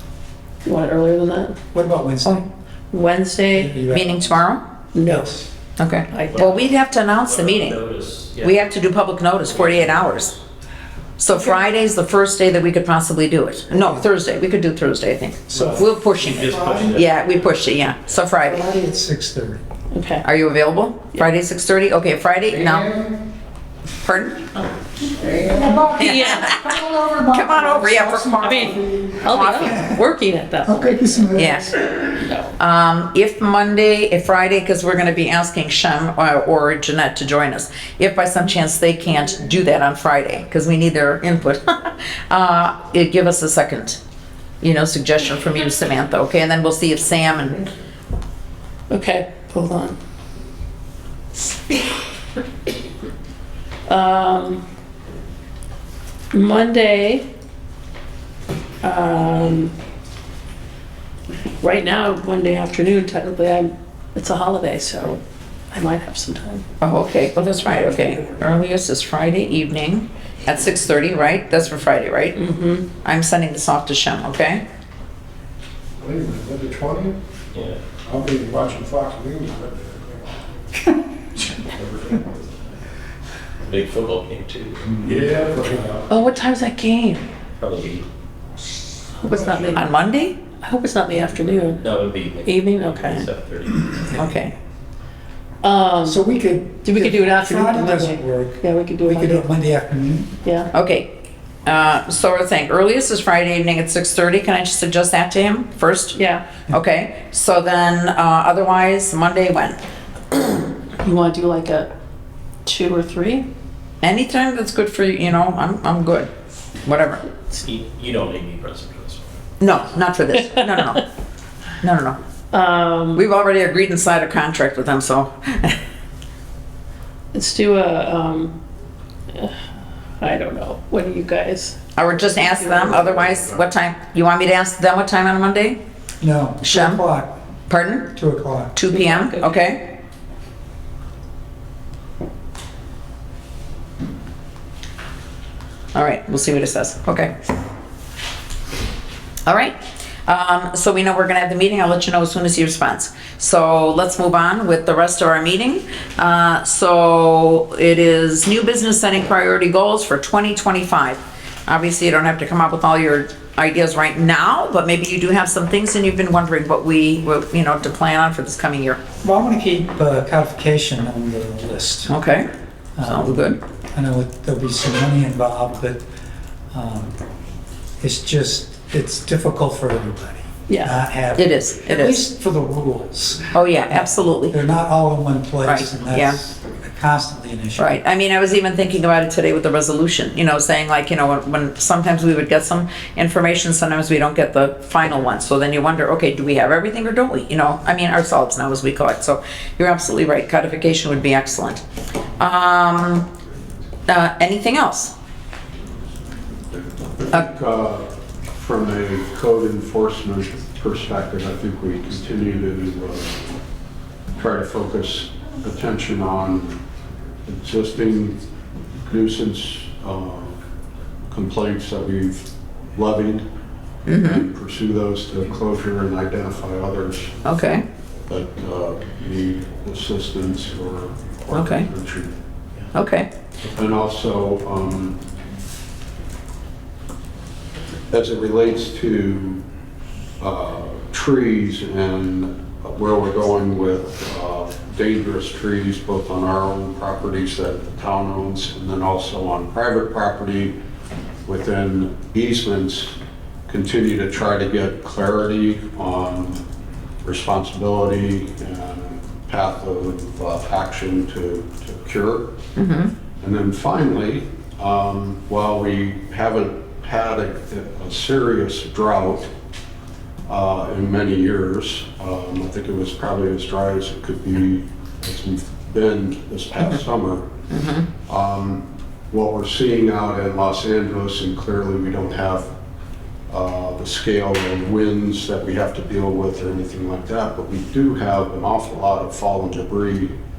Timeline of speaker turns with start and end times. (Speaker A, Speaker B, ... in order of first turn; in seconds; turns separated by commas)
Speaker A: 0.7-1.6, Speaker B: 1.7-2.5, Speaker A: 2.9-3.8, Speaker B: 3.5-4.4, Speaker C: 3.9-4.6, Speaker A: 5.0-5.3, Speaker B: 5.0-5.5, Speaker C: 5.8-7.8, Speaker A: 6.1-6.6, Speaker D: 6.3-8.8, Speaker C: 8.4-10.3, Speaker D: 9.4-10.4, Speaker C: 11.2-18.6, Speaker B: 15.5-17.0, Speaker D: 15.5-18.2, Speaker B: 18.4-19.6, Speaker A: 19.9-20.2, Speaker C: 20.2-22.9, Speaker E: 22.7-23.1, Speaker C: 24.0-24.4, Speaker E: 25.2-25.7, Speaker B: 25.3-30.0, Speaker A: 26.0-26.5, Speaker C: 26.0-26.7, Speaker C: 27.3-29.7, Speaker A: 28.4-31.7, Speaker B: 30.6-31.6, Speaker C: 31.4-31.8, Speaker A: 32.2-32.5, Speaker C: 32.6-44.0, Speaker C: 44.6-47.7, Speaker A: 48.9-50.0, Speaker A: 53.9-54.6, Speaker A: 56.3-57.3, Speaker A: 58.8-59.7, Speaker A: 61.6-65.2, Speaker A: 65.7-66.7, Speaker C: 66.8-72.4, Speaker A: 72.4-72.9, Speaker C: 73.0-74.6, Speaker E: 76.0-77.2, Speaker D: 77.5-77.8, Speaker E: 78.0-80.3, Speaker D: 81.7-82.5, Speaker D: 83.6-85.2, Speaker E: 85.0-86.0, Speaker A: 86.1-87.2, Speaker D: 87.6-88.1, Speaker A: 89.2-89.9, Speaker C: 89.7-90.4, Speaker A: 90.6-91.9, Speaker D: 91.8-94.2, Speaker A: 92.4-93.3, Speaker C: 94.1-94.5, Speaker A: 95.6-96.2, Speaker B: 96.0-100.3, Speaker A: 96.8-99.5, Speaker A: 100.4-100.7, Speaker C: 100.7-101.1, Speaker C: 101.7-106.2, Speaker A: 106.1-106.4, Speaker C: 106.7-109.8, Speaker A: 111.0-111.9, Speaker A: 112.7-113.5, Speaker C: 114.0-116.3, Speaker C: 116.8-117.2, Speaker D: 117.5-119.7, Speaker C: 119.6-121.0, Speaker A: 120.6-121.0, Speaker C: 121.8-122.2, Speaker A: 122.5-123.2, Speaker C: 123.2-125.8, Speaker A: 127.3-128.6, Speaker A: 130.2-133.5, Speaker C: 132.0-135.8, Speaker B: 136.2-137.3, Speaker C: 136.6-137.0, Speaker C: 137.7-138.1, Speaker B: 138.0-138.8, Speaker C: 138.8-139.9, Speaker A: 138.9-139.6, Speaker C: 145.9-147.3, Speaker C: 149.5-149.8, Speaker C: 150.3-169.0, Speaker B: 169.2-172.1, Speaker C: 172.1-172.5, Speaker B: 173.0-176.0, Speaker C: 173.0-173.6, Speaker B: 176.7-177.2, Speaker B: 178.0-187.9, Speaker A: 180.7-181.0, Speaker C: 181.4-182.2, Speaker C: 183.5-184.6, Speaker C: 185.7-186.4, Speaker C: 187.8-201.8, Speaker C: 202.4-203.3, Speaker C: 204.1-205.1, Speaker F: 207.2-213.3, Speaker F: 214.4-216.8, Speaker F: 217.5-218.4, Speaker F: 219.0-220.6, Speaker F: 221.3-223.5, Speaker C: 224.1-224.5, Speaker F: 224.2-227.4, Speaker C: 227.4-227.9, Speaker F: 228.3-232.3, Speaker C: 231.5-231.9, Speaker C: 232.9-233.3, Speaker F: 233.7-235.2, Speaker F: 238.1-239.6, Speaker F: 240.4-250.8, Speaker F: 251.4-253.2, Speaker F: 253.7-256.6, Speaker F: 257.2-262.6, Speaker C: 262.8-263.1, Speaker F: 263.4-269.5, Speaker F: 270.5-277.5, Speaker C: 277.7-278.1, Speaker F: 278.2-282.7, Speaker F: 283.5-290.4